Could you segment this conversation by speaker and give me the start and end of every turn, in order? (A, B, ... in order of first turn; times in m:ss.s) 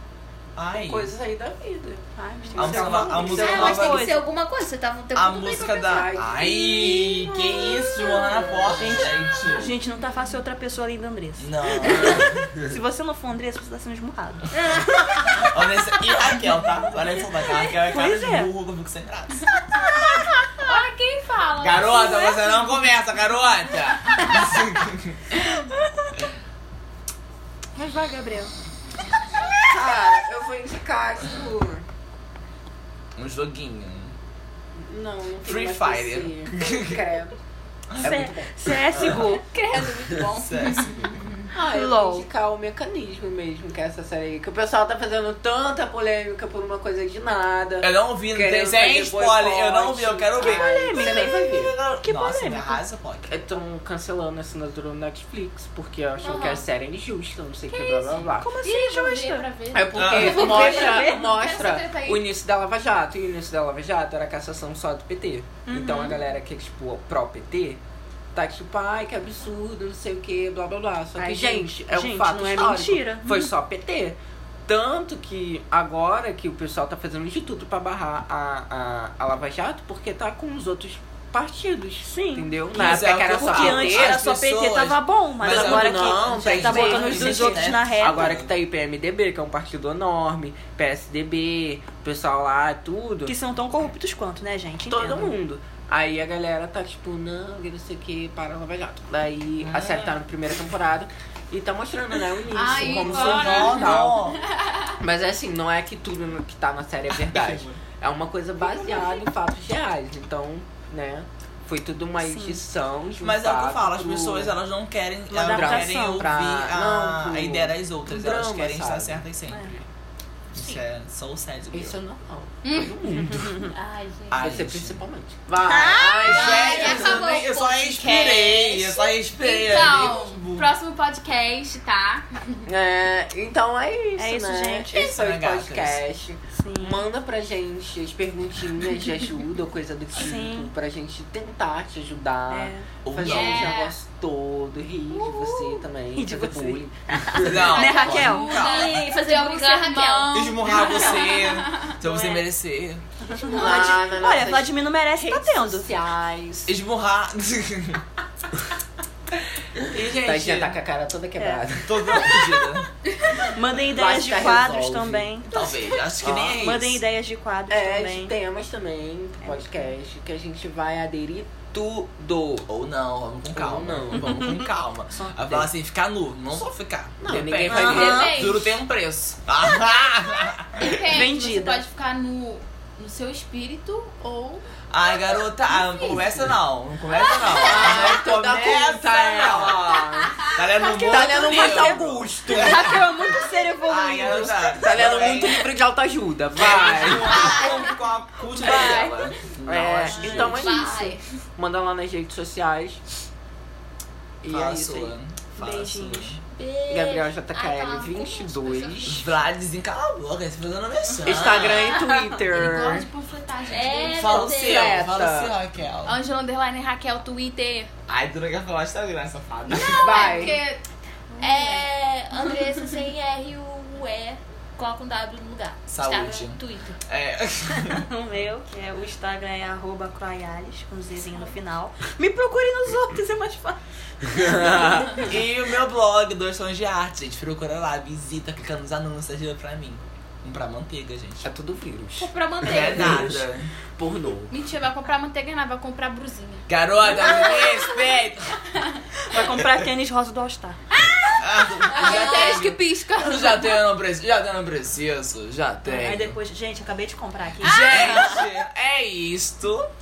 0:00.6-0:01.1 A
0:00.7-0:03.9 B
0:02.2-0:04.2 C
0:02.5-0:04.1 A
0:03.2-0:08.0 D
0:05.1-0:09.7 A
0:05.7-0:09.2 B
0:08.8-0:14.6 C
0:11.4-0:12.5 A
0:14.6-0:15.4 D
0:15.0-0:19.9 A
0:17.8-0:18.5 C
0:20.6-0:22.9 E
0:21.6-0:25.2 A
0:27.7-0:28.5 C
0:29.6-0:31.8 B
0:33.2-0:34.2 A
0:34.7-0:37.3 B
0:35.4-0:37.0 A
0:38.0-0:38.8 B
0:38.0-0:39.4 C
0:38.9-0:39.4 A
0:39.3-0:41.4 E
0:39.4-0:40.4 D
0:40.3-0:41.2 A
0:41.5-0:51.7 B
0:41.7-0:42.2 C
0:47.8-0:53.4 A
0:50.4-0:52.8 C
0:53.3-0:58.5 B
0:56.2-0:56.6 E
0:57.7-1:02.3 E
0:58.4-0:59.5 C
0:59.7-1:07.8 B
0:59.9-1:00.4 A
1:00.2-1:01.3 C
1:05.7-1:06.2 C
1:08.3-1:24.2 B
1:11.2-1:13.5 C
1:22.1-1:28.3 C
1:22.7-1:28.5 A
1:25.4-1:33.3 B
1:33.2-1:35.4 C
1:34.8-1:44.3 B
1:39.6-1:40.1 A
1:42.5-1:44.9 E
1:42.8-1:44.4 A
1:45.0-1:54.6 B
1:47.2-1:47.8 A
1:52.2-1:52.6 C
1:53.2-1:59.8 A
1:55.3-1:56.4 C
1:55.3-1:59.2 B
1:59.5-1:59.7 C
2:00.5-2:02.0 A
2:00.6-2:00.8 D
2:01.7-2:03.7 B
2:02.6-2:02.9 E
2:03.3-2:03.7 C
2:03.6-2:04.5 D
2:04.3-2:05.0 A
2:04.4-2:07.3 B
2:05.6-2:09.1 D
2:06.2-2:10.7 A
2:09.3-2:12.6 E
2:12.7-2:27.9 B
2:14.2-2:15.0 C
2:14.9-2:16.0 A
2:16.6-2:17.0 C
2:20.2-2:20.7 C
2:22.5-2:22.9 C
2:23.0-2:23.8 A
2:23.2-2:24.0 E
2:25.1-2:28.5 C
2:27.4-2:29.0 A
2:27.7-2:32.0 E
2:28.4-2:30.5 D
2:30.3-2:33.0 A
2:30.7-2:31.3 C
2:32.0-2:32.4 C
2:33.2-2:35.9 C
2:33.4-2:33.9 E
2:33.5-2:36.7 B
2:36.6-2:38.0 A
2:39.9-2:42.6 B
2:39.9-2:40.8 A
2:41.8-2:42.9 A
2:43.4-2:45.5 C
2:43.9-2:45.4 B
2:45.5-2:47.0 A
2:46.2-2:46.6 B
2:46.4-2:48.3 C
2:47.7-2:52.6 B
2:49.4-2:49.7 C
2:52.7-3:01.0 A
2:53.5-2:54.4 B
2:55.1-2:55.4 C
2:57.2-2:58.4 B
2:57.7-2:58.8 E
2:57.7-2:58.3 C
3:00.7-3:04.6 E
3:01.0-3:01.8 C
3:04.9-3:15.7 A
3:05.7-3:06.4 E
3:07.1-3:07.6 E
3:07.6-3:13.0 B
3:11.1-3:14.9 C
3:14.8-3:17.7 B
3:16.5-3:20.7 A
3:17.4-3:17.8 D
3:17.5-3:17.9 E
3:18.5-3:19.4 E
3:19.6-3:23.0 B
3:20.1-3:21.2 D
3:24.4-3:25.1 B
3:24.5-3:26.4 A
3:25.6-3:26.4 C
3:26.5-3:29.4 D
3:26.9-3:29.3 B
3:29.1-3:32.1 A
3:31.2-3:33.1 B
3:32.4-3:34.5 E
3:33.7-3:35.0 D
3:34.1-3:36.2 A
3:34.4-3:35.6 B
3:36.0-3:37.9 E
3:38.1-3:40.5 A
3:39.6-3:41.9 E
3:40.0-3:40.6 B
3:41.4-3:47.0 D
3:45.9-3:48.1 A
3:47.8-3:55.4 C
3:54.4-3:55.1 B
3:55.1-4:01.5 A
4:01.4-4:03.4 B
4:02.2-4:03.4 D
4:02.6-4:03.7 A
4:04.0-4:04.5 B
4:04.5-4:07.5 E
4:06.7-4:08.6 A
4:09.2-4:10.8 C
4:09.4-4:09.6 A
4:10.9-4:13.8 E
4:11.4-4:16.4 A
4:11.9-4:12.7 D
4:15.8-4:18.4 C
4:17.6-4:18.5 E
4:17.6-4:19.9 A